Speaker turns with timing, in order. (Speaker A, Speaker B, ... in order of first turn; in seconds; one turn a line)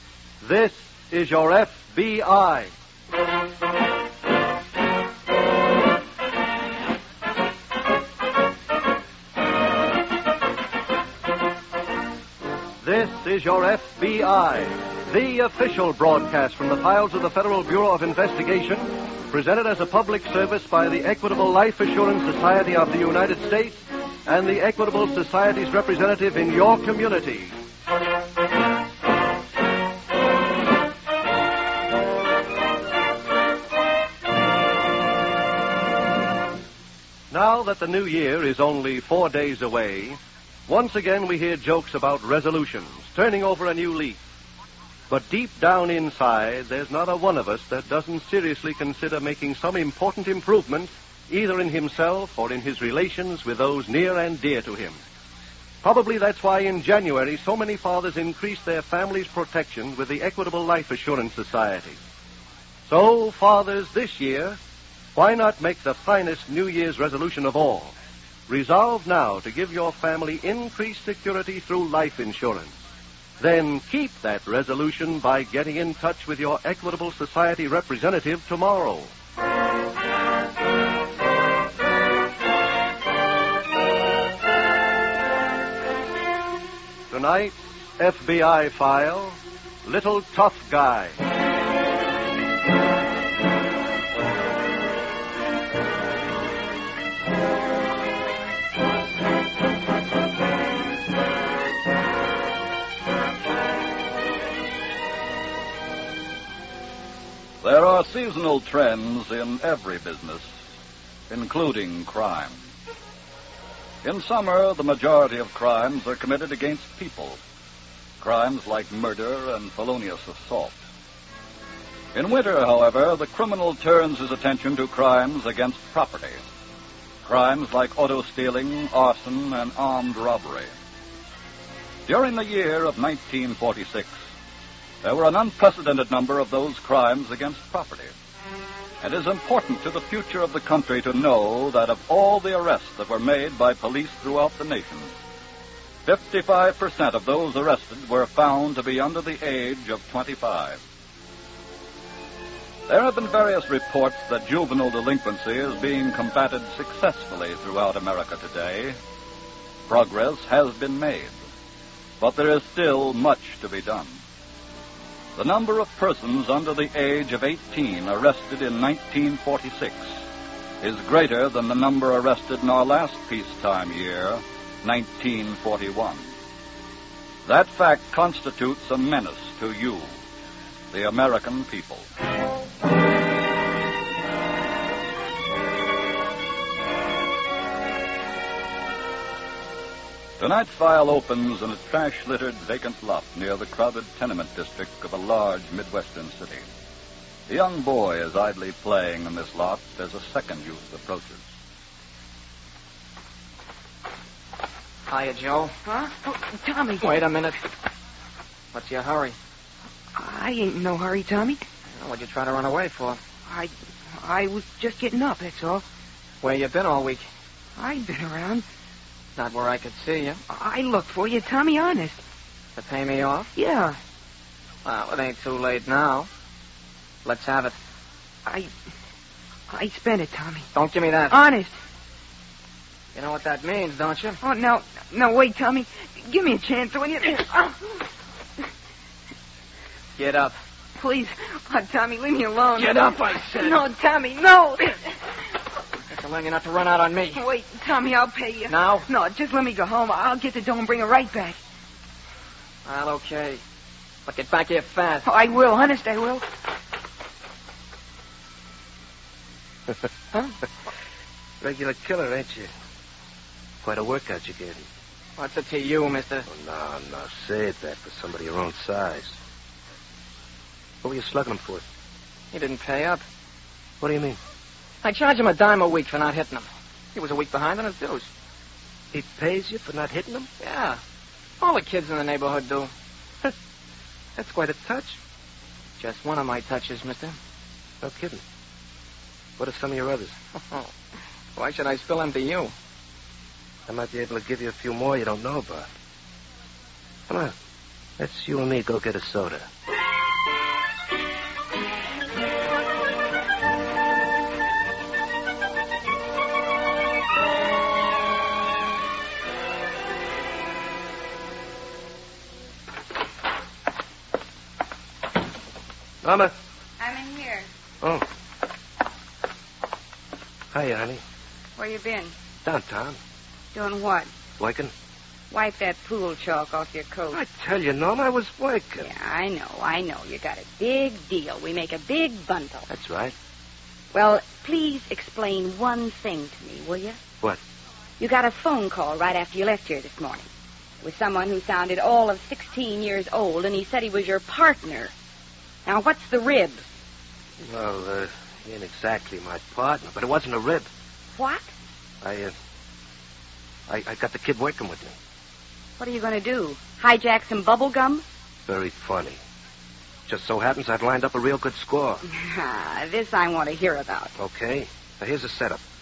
Speaker A: 0.4-2.7
Speaker A: 12.8-27.5
Speaker A: 37.3-44.2
Speaker A: 45.1-55.0
Speaker A: 55.8-62.0
Speaker A: 62.9-64.6
Speaker A: 65.2-67.9
Speaker A: 68.5-72.8
Speaker A: 73.4-79.1
Speaker A: 87.1-91.2
Speaker B: 107.6-110.5
Speaker B: 111.3-112.6
Speaker B: 114.0-117.4
Speaker B: 118.2-120.8
Speaker B: 122.2-126.4
Speaker B: 127.2-130.7
Speaker B: 132.1-134.2
Speaker B: 135.0-138.1
Speaker B: 139.0-145.1
Speaker B: 146.1-150.8
Speaker B: 152.9-159.0
Speaker B: 159.9-161.4
Speaker B: 162.2-164.2
Speaker B: 165.4-170.2
Speaker B: 170.8-176.3
Speaker B: 177.5-180.1
Speaker B: 180.9-182.1
Speaker B: 190.4-196.6
Speaker B: 197.5-201.4
Speaker C: 205.1-206.1
Speaker D: 206.0-207.1
Speaker C: 207.0-207.6
Speaker C: 208.7-209.4
Speaker D: 210.1-211.6
Speaker C: 211.9-213.2
Speaker D: 213.5-215.8
Speaker C: 216.4-217.3
Speaker D: 217.8-218.7
Speaker C: 219.4-220.4
Speaker D: 220.5-222.2
Speaker C: 222.8-223.5
Speaker D: 223.6-224.0
Speaker C: 224.8-226.3
Speaker C: 227.2-227.8
Speaker D: 228.4-228.7
Speaker D: 229.7-230.7
Speaker C: 230.7-231.4
Speaker D: 231.3-231.7
Speaker C: 233.2-234.4
Speaker D: 234.4-238.0
Speaker C: 240.2-240.6
Speaker D: 241.0-245.0
Speaker C: 242.8-243.9
Speaker C: 246.1-247.4
Speaker D: 247.3-251.6
Speaker C: 248.7-249.1
Speaker C: 252.8-253.6
Speaker C: 254.3-255.3
Speaker D: 255.2-256.4
Speaker E: 261.6-262.7
Speaker E: 263.8-264.8
Speaker C: 265.4-266.5
Speaker E: 266.5-269.4
Speaker E: 271.0-271.8
Speaker C: 272.5-273.2
Speaker E: 274.0-274.4
Speaker C: 275.0-278.3
Speaker E: 279.1-280.5
Speaker C: 280.6-281.0
Speaker C: 281.6-282.9
Speaker E: 284.4-285.2
Speaker C: 286.0-287.4
Speaker E: 288.0-288.4
Speaker E: 289.6-290.4
Speaker C: 291.6-292.7
Speaker E: 293.9-295.9
Speaker E: 297.3-297.6
Speaker E: 298.2-299.7
Speaker E: 316.2-316.5
Speaker F: 317.0-317.7
Speaker E: 320.7-321.2
Speaker F: 321.8-322.3
Speaker E: 322.6-323.2
Speaker F: 323.7-324.3
Speaker E: 324.6-324.9
Speaker F: 325.5-327.4
Speaker E: 327.3-329.1
Speaker F: 329.1-332.9
Speaker E: 332.9-333.3
Speaker F: 334.1-337.2
Speaker F: 338.2-340.5
Speaker F: 341.0-345.1
Speaker F: 345.9-346.8
Speaker E: 347.6-350.9
Speaker F: 351.4-351.7
Speaker E: 352.2-352.5
Speaker E: 353.9-355.1
Speaker F: 356.0-358.2
Speaker E: 358.7-359.4
Speaker E: 360.3-362.2
Speaker F: 362.3-364.3
Speaker E: 364.4-365.8